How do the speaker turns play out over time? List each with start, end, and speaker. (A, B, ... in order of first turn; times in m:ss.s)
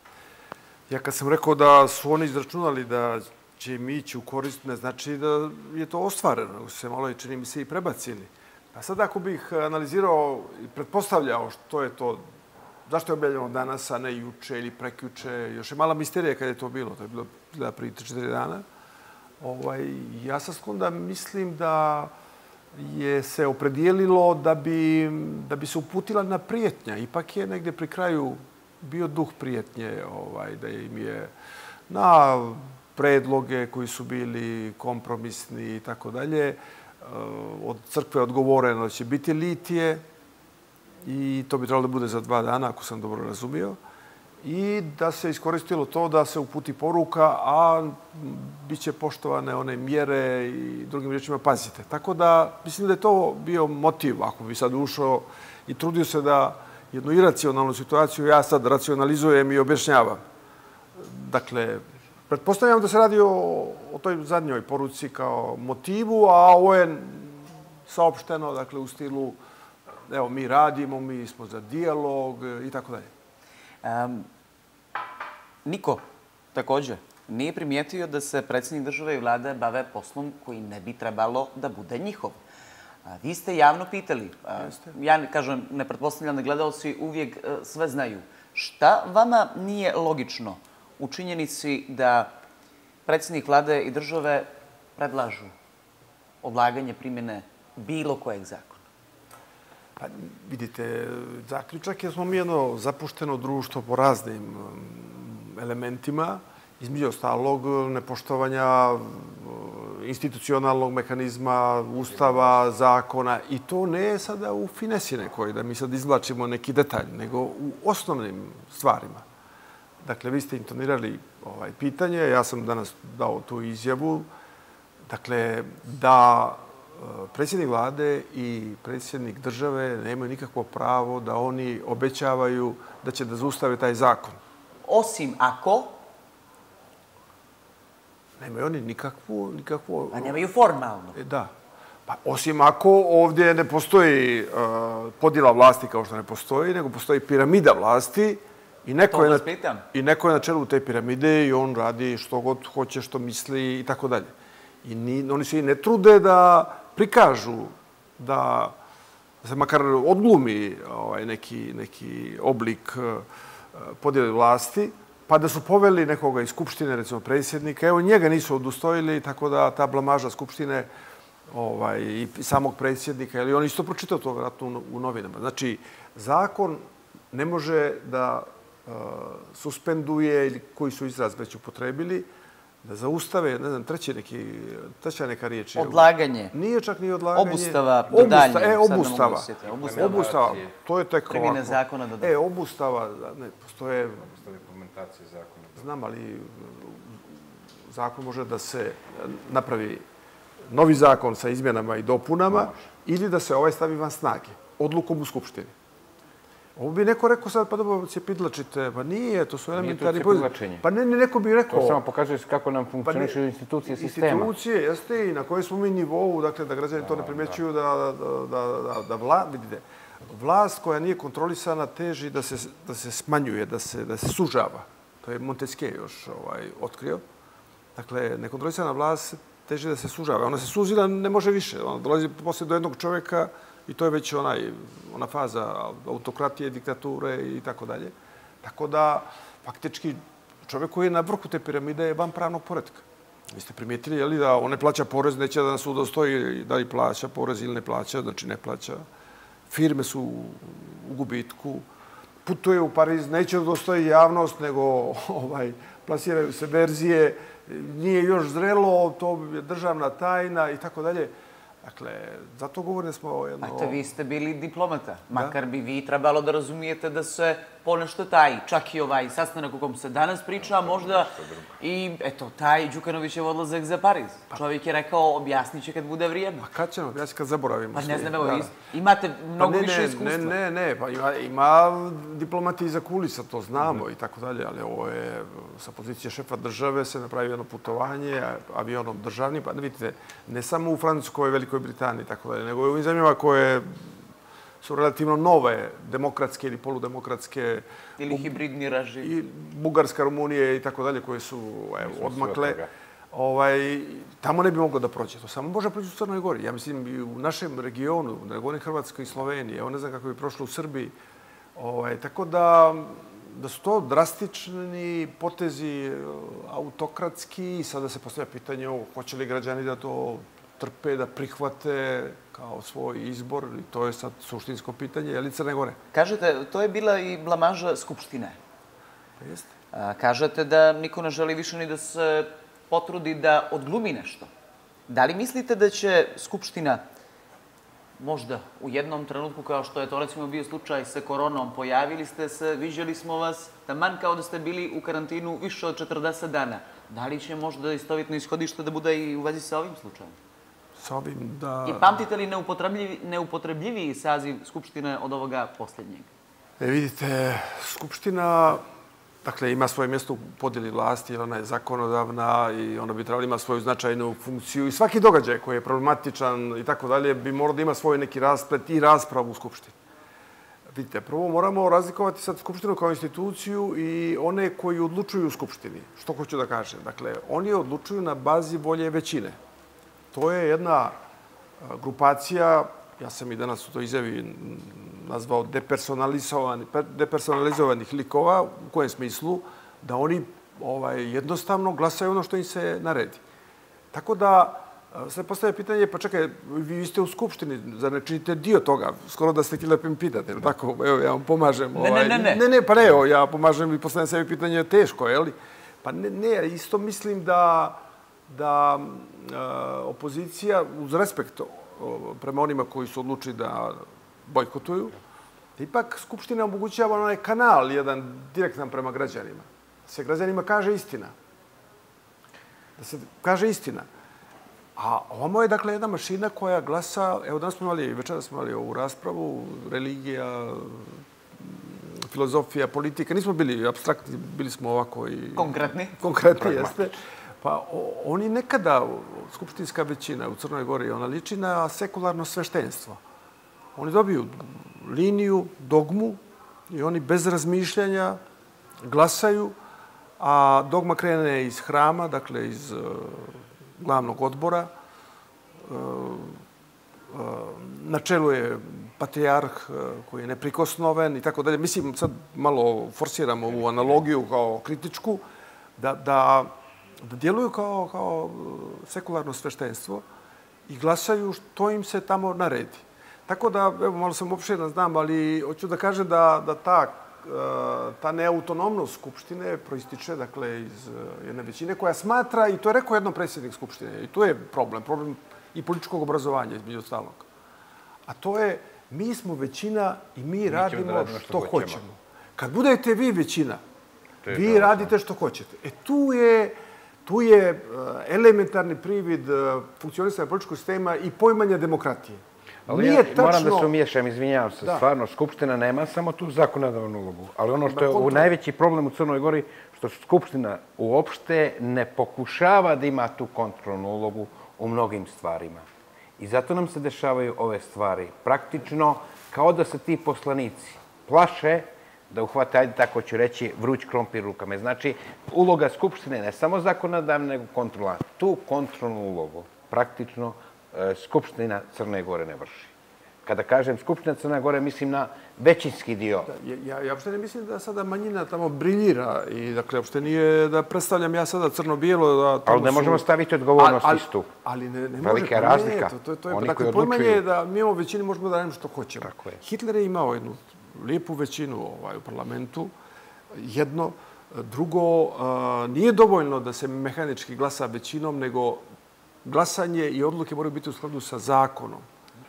0:00.9-0:12.2 A
0:12.9-0:18.6 A
0:19.4-0:22.1 A
0:22.7-0:31.3 A
0:31.9-0:40.0 A
0:41.0-0:43.8 A
0:44.4-1:00.2 A
1:01.0-1:09.4 A
1:10.1-1:13.1 A
1:13.8-1:14.3 B
1:15.6-1:22.4 B
1:23.1-1:32.3 B
1:24.6-1:25.0 A
1:33.1-1:35.5 B
1:36.4-1:38.8 B
1:40.0-1:59.2 A
2:00.0-2:04.3 A
2:05.1-2:14.4 A
2:14.8-2:16.0 B
2:18.4-2:20.4 A
2:20.1-2:21.2 B
2:21.2-2:21.5 A
2:22.1-2:34.3 A
2:29.1-2:29.9 B
2:34.8-2:38.8 A
2:39.4-2:50.9 A
2:51.5-3:02.3 A
3:02.8-3:14.4 A
3:05.8-3:06.5 B
3:07.3-3:10.6 B
3:09.6-3:10.8 C
3:11.3-3:12.4 B
3:14.3-3:15.9 C
3:15.8-3:17.2 A
3:17.9-3:20.0 A
3:20.7-3:25.8 A
3:22.5-3:22.8 C
3:26.8-3:32.0 A
3:29.7-3:30.8 C
3:31.7-3:34.5 C
3:33.0-3:47.2 A
3:37.0-3:37.6 C
3:48.0-4:09.0 A
4:09.7-4:11.9 A
4:12.4-4:24.0 A
4:23.6-4:36.7 B
4:25.3-4:25.6 A
4:30.8-4:31.7 C
4:36.6-4:38.7 A
4:37.9-4:40.6 B
4:39.6-4:54.2 A
4:54.8-4:58.6 A
4:58.2-4:59.3 B
4:59.2-5:11.1 A
5:02.0-5:02.9 C
5:11.8-5:26.0 A
5:26.1-5:28.6 B
5:29.4-5:29.7 A
5:29.9-5:34.5 B
5:35.1-5:37.0 B
5:38.2-5:50.4 B
5:51.0-5:52.2 A
5:51.8-5:56.3 B
5:56.8-5:58.8 A
5:59.4-6:10.0 A
6:10.9-6:19.6 A
6:20.3-6:21.2 A
6:21.8-6:33.4 A
6:34.1-6:55.2 A
6:42.0-6:42.6 B
6:55.8-7:01.3 A
7:03.0-7:04.1 A
7:05.0-7:23.2 A
7:15.6-7:16.2 B
7:16.6-7:16.9 C
7:24.0-7:28.4 A
7:29.0-7:29.8 A
7:30.4-7:34.9 A
7:35.8-7:36.6 A
7:37.3-7:45.4 A
7:46.0-7:50.2 A
7:50.9-8:07.5 A
8:08.3-8:13.8 A
8:10.7-8:12.0 C
8:14.4-8:15.1 C
8:14.5-8:23.9 A
8:22.9-8:35.8 C
8:24.8-8:25.1 A
8:27.9-8:28.5 A
8:36.4-8:52.9 C
8:53.4-8:56.5 C
8:56.5-9:03.2 A
9:02.7-9:04.5 C
9:03.8-9:12.9 A
9:05.2-9:07.4 C
9:09.3-9:09.6 C
9:13.5-9:18.8 A
9:19.4-9:22.1 A